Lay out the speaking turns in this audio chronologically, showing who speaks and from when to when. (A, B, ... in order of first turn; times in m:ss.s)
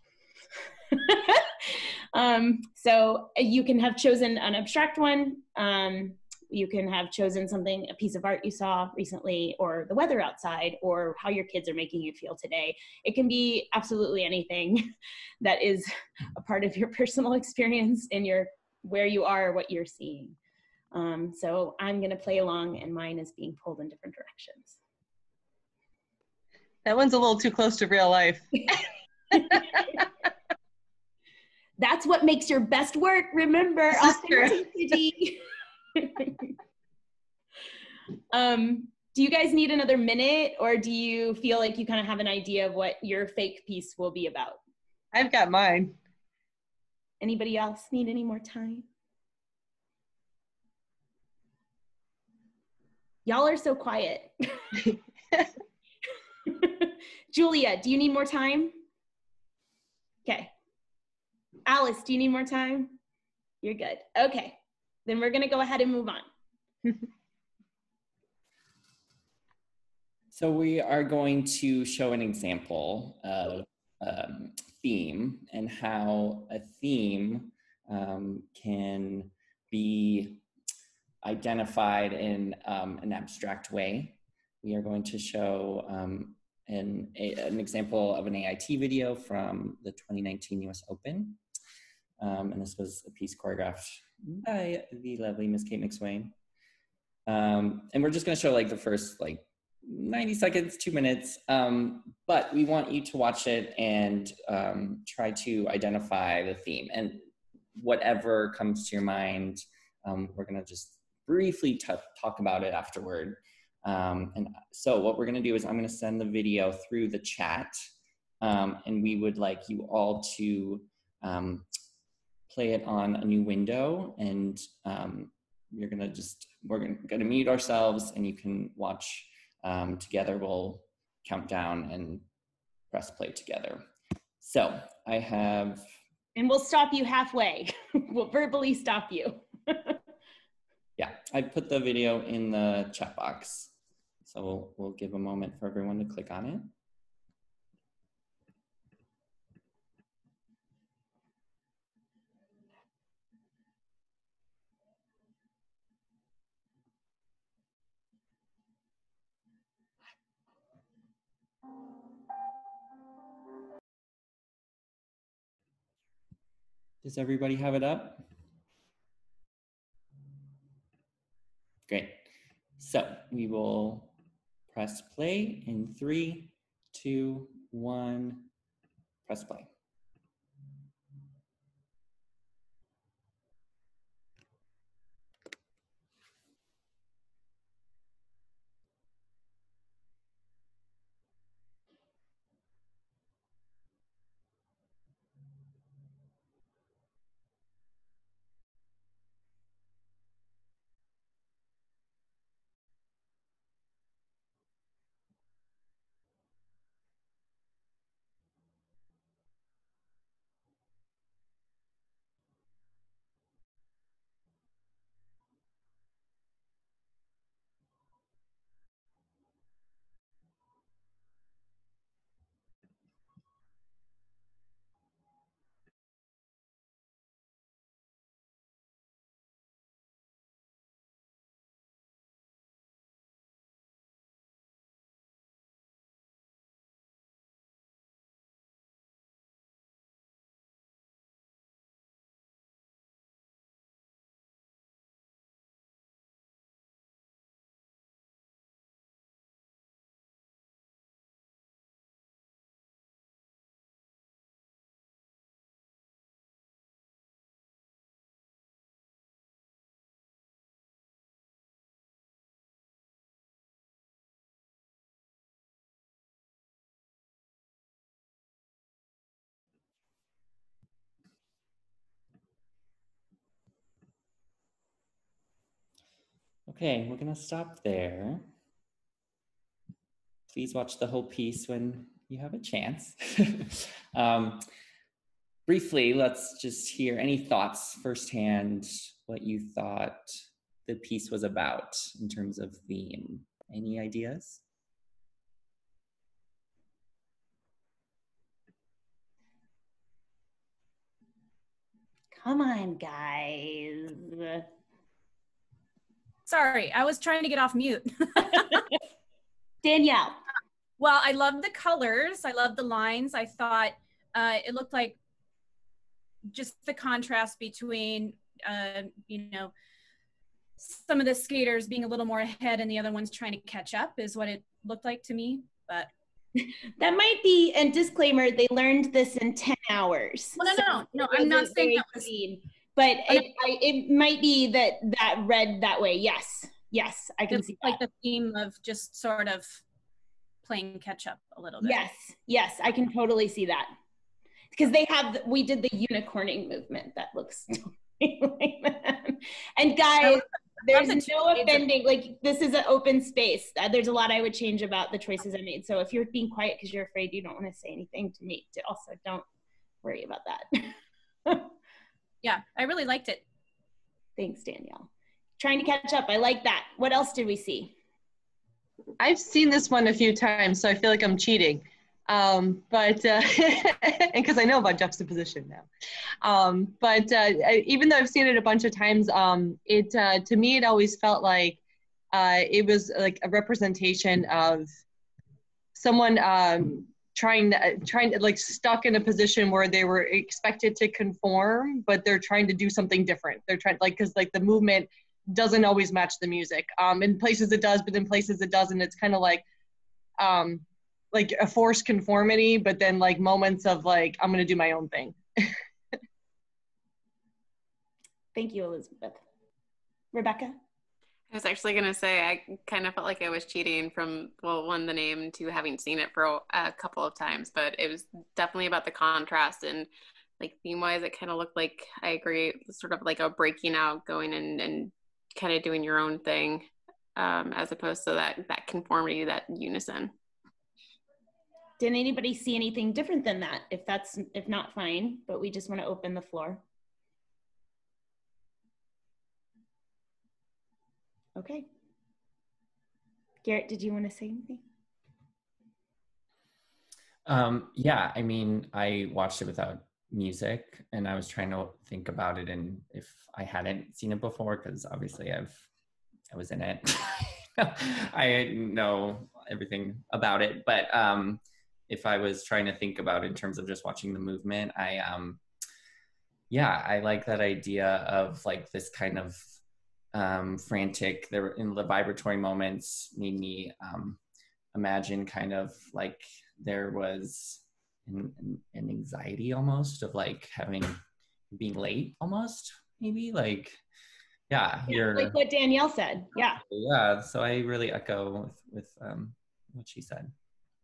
0:00.9-0:14.8 A
0:15.4-0:20.4 A
0:20.9-0:24.8 A
0:26.8-0:28.8 B
0:29.3-0:29.8 B
0:31.8-0:35.4 A
0:34.0-0:34.6 B
0:35.9-0:36.5 A
0:38.3-0:44.6 A
0:45.1-0:46.0 B
0:47.2-0:48.8 A
0:53.2-0:54.6 A
0:56.4-0:58.8 A
1:00.2-1:00.5 A
1:01.6-1:03.0 A
1:03.6-1:06.2 A
1:10.3-1:20.4 C
1:21.2-1:31.4 C
1:32.2-1:36.3 C
1:37.2-1:47.2 C
1:47.8-1:57.8 C
1:58.4-2:01.7 C
2:02.5-2:12.2 C
2:12.9-2:13.8 C
2:14.4-2:15.8 C
2:16.4-2:20.0 A
2:21.0-2:23.7 C
2:24.2-2:26.7 C
2:47.0-2:48.2 C
2:51.9-2:52.3 C
2:52.8-2:54.1 C
2:54.7-2:58.5 C
2:59.2-2:59.7 C
4:36.7-4:38.5 C
4:40.5-4:44.6 C
4:45.6-4:50.3 C
4:50.8-4:54.6 C
5:02.3-5:04.7 A
5:06.5-5:08.9 D
5:09.8-5:10.4 A
5:11.0-5:15.2 D
5:16.5-5:19.7 D
5:20.8-5:26.1 D
5:26.6-5:38.0 A
5:30.6-5:32.3 D
5:37.5-5:39.8 D
5:40.6-5:42.0 D
5:41.8-5:43.9 A
5:44.7-5:59.4 A
5:50.2-5:51.8 D
6:00.0-6:00.9 A
6:02.4-6:03.4 D
6:04.4-6:07.9 A
6:09.2-6:15.9 B
6:16.4-6:21.8 B
6:22.3-6:24.9 B
6:26.0-6:39.6 B
6:40.4-6:45.6 B
6:48.5-6:49.4 A
6:50.3-6:50.8 A
6:51.5-7:00.1 E
7:00.6-7:10.3 E
7:12.0-7:16.8 A
7:21.6-7:21.8 A
7:23.6-7:24.8 A
7:27.4-7:35.8 C
7:36.5-7:45.6 C
7:46.7-7:49.6 C
7:50.3-7:54.4 C
7:54.9-8:01.2 C
8:01.7-8:04.0 C
8:04.7-8:05.6 C
8:05.1-8:06.8 A
8:06.7-8:10.5 C